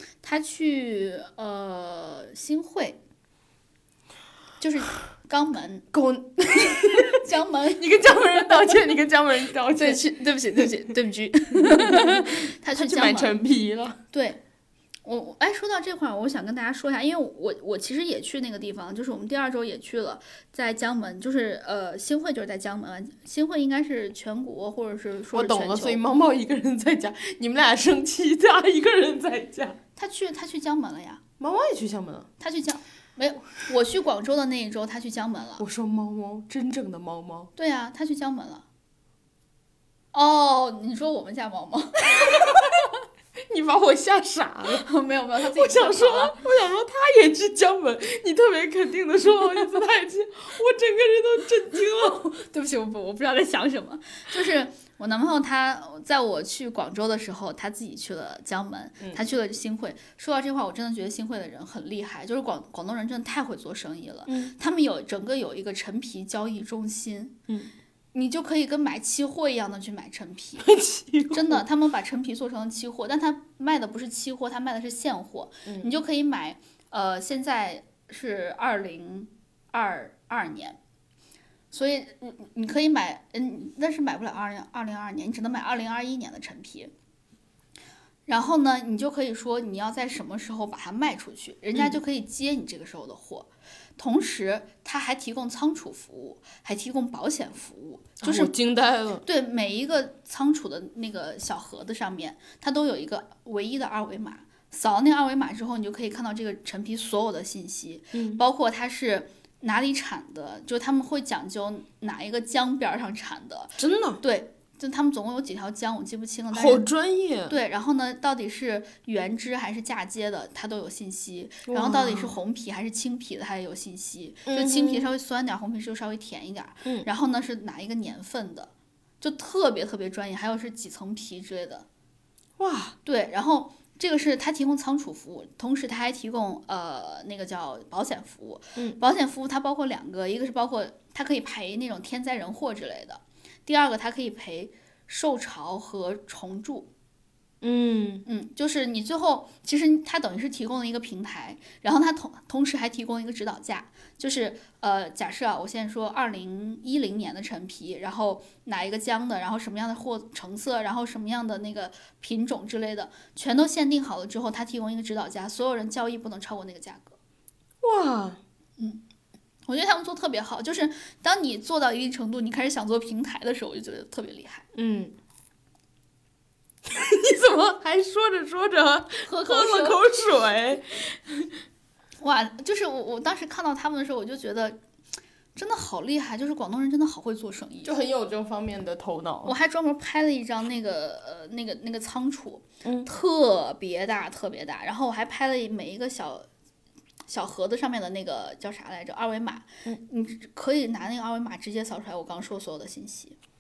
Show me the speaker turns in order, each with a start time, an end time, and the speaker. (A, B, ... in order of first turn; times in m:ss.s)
0:00.2-0:03.0 A
0:04.6-0:05.9 A
0:05.9-0:10.8 B
0:06.8-0:08.5 A
0:09.7-0:13.4 A
0:11.5-0:14.0 B
0:14.1-0:14.4 A
0:15.0-0:26.0 A
0:25.3-0:29.8 B
0:30.0-0:31.2 A
0:31.4-0:32.3 B
0:32.4-0:35.6 A
0:35.6-0:37.5 B
0:37.6-0:38.6 A
0:40.1-0:42.9 A
0:42.2-0:42.6 B
0:43.5-0:44.9 B
0:44.8-0:46.4 A
0:45.5-0:52.4 B
0:52.3-1:07.4 A
1:04.3-1:04.5 B
1:08.1-1:10.7 A
1:10.6-1:11.6 B
1:11.3-1:20.8 A
1:21.7-1:26.9 A
1:28.3-1:38.5 A
1:38.2-1:39.2 B
1:39.2-1:56.8 A
1:48.1-1:48.4 B
1:53.8-1:54.2 B
1:56.5-1:57.6 B
1:57.5-2:11.9 A
2:01.7-2:02.4 B
2:04.5-2:05.1 B
2:12.6-2:13.0 B
2:13.0-2:26.9 A
2:27.6-2:28.2 B
2:28.3-2:47.2 A
2:47.8-2:48.4 B
2:49.7-2:54.7 A
2:54.7-2:55.1 B
2:56.8-3:01.4 B
2:59.2-3:00.0 A
3:02.2-3:04.8 A
3:05.6-3:07.9 A
3:07.8-3:09.5 B
3:09.4-3:16.5 A
3:12.8-3:13.1 B
3:17.3-3:23.4 A